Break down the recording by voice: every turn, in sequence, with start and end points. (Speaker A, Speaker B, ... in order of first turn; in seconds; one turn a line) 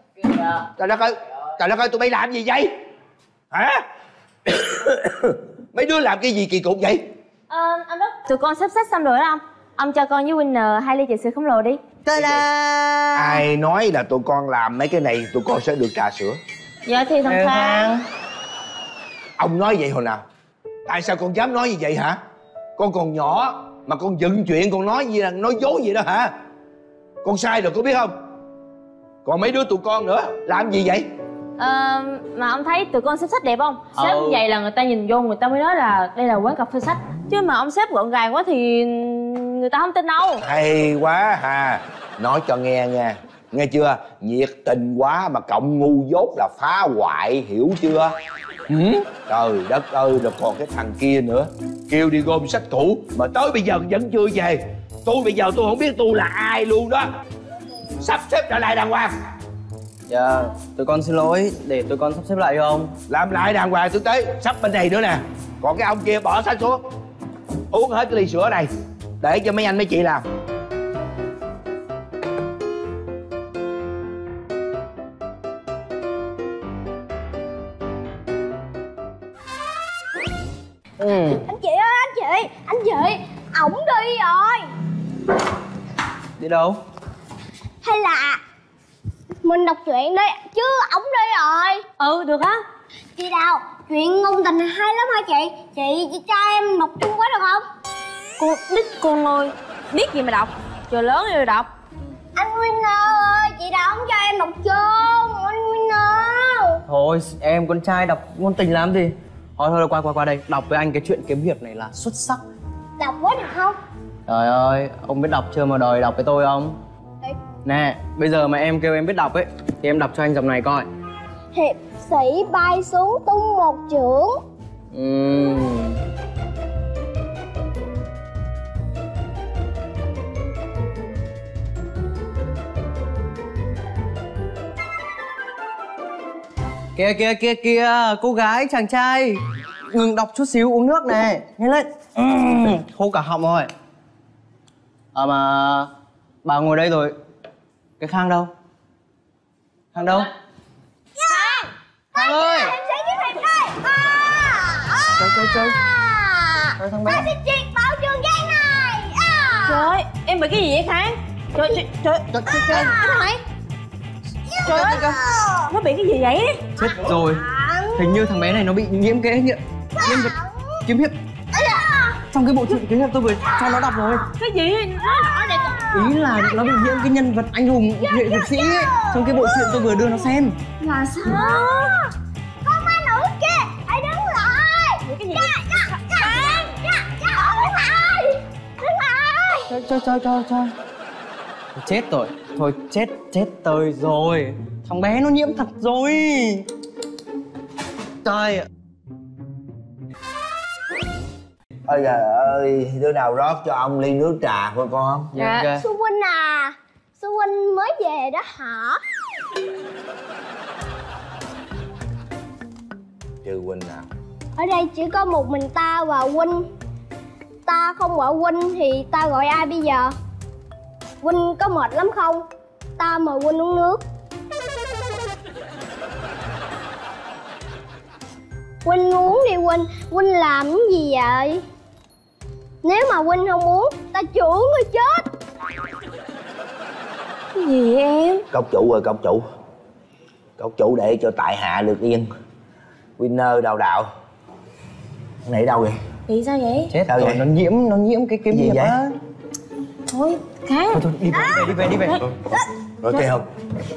Speaker A: 0.8-2.7
Speaker A: 3.5-3.8
Speaker A: 4.5-7.0
Speaker B: 7.5-11.8
Speaker C: 12.1-13.4
Speaker A: 12.1-12.5
Speaker A: 13.1-16.4
Speaker B: 16.8-17.9
Speaker C: 17.2-18.0
Speaker A: 19.4-20.2
Speaker A: 20.9-22.2
Speaker A: 22.8-26.3
Speaker A: 27.2-28.1
Speaker A: 29.2-31.1
Speaker B: 31.6-40.4
Speaker C: 33.9-34.4
Speaker A: 40.4-48.1
Speaker A: 48.7-57.0
Speaker A: 58.0-59.1
Speaker C: 60.1-62.9
Speaker A: 63.1-66.8
Speaker A: 67.7-70.2
Speaker C: 81.0-81.4
Speaker D: 81.5-84.7
Speaker C: 86.4-86.8
Speaker D: 87.8-88.4
Speaker D: 89.4-91.8
Speaker B: 92.0-92.6
Speaker D: 93.2-97.6
Speaker B: 98.4-101.7
Speaker D: 102.3-106.8
Speaker C: 106.9-112.4
Speaker D: 113.0-113.8
Speaker C: 114.3-116.8
Speaker C: 117.6-120.9
Speaker D: 121.5-124.4
Speaker C: 124.9-126.0
Speaker C: 136.9-143.7
Speaker C: 145.1-145.9
Speaker C: 146.4-147.2
Speaker C: 148.0-148.5
Speaker C: 149.9-150.3
Speaker D: 151.2-159.9
Speaker B: 151.3-151.7
Speaker C: 152.2-152.7
Speaker C: 155.2-155.8
Speaker C: 156.8-157.3
Speaker B: 159.7-162.3
Speaker C: 162.3-162.9
Speaker D: 162.4-163.3
Speaker B: 163.0-163.4
Speaker D: 164.5-165.7
Speaker B: 164.7-164.9
Speaker C: 164.7-165.2
Speaker B: 165.7-166.7
Speaker C: 166.8-170.3
Speaker D: 166.8-168.2
Speaker D: 169.9-170.8
Speaker C: 170.8-171.1
Speaker D: 171.5-172.2
Speaker C: 172.3-174.3
Speaker D: 173.6-173.8
Speaker B: 174.3-175.8
Speaker D: 175.2-176.1
Speaker C: 175.9-180.6
Speaker D: 178.0-179.9
Speaker B: 180.8-181.8
Speaker D: 181.2-182.1
Speaker D: 182.6-189.7
Speaker B: 185.1-186.7
Speaker C: 189.7-190.7
Speaker C: 191.7-196.7
Speaker C: 198.2-198.7
Speaker A: 201.9-205.3
Speaker C: 205.3-205.8
Speaker B: 205.4-205.7
Speaker D: 205.7-209.0
Speaker A: 213.4-214.1
Speaker D: 214.6-216.6
Speaker D: 217.7-220.1
Speaker D: 221.2-222.4
Speaker D: 223.0-224.0
Speaker D: 228.8-231.6
Speaker D: 232.8-235.2
Speaker B: 237.5-238.4
Speaker A: 238.5-239.4
Speaker A: 240.6-242.3
Speaker A: 243.2-244.1
Speaker A: 245.4-246.0
Speaker B: 246.3-246.9
Speaker C: 246.9-249.1
Speaker A: 247.1-247.4
Speaker A: 248.5-249.0
Speaker B: 250.1-251.0
Speaker C: 250.9-252.3
Speaker D: 251.3-251.7
Speaker A: 253.0-253.5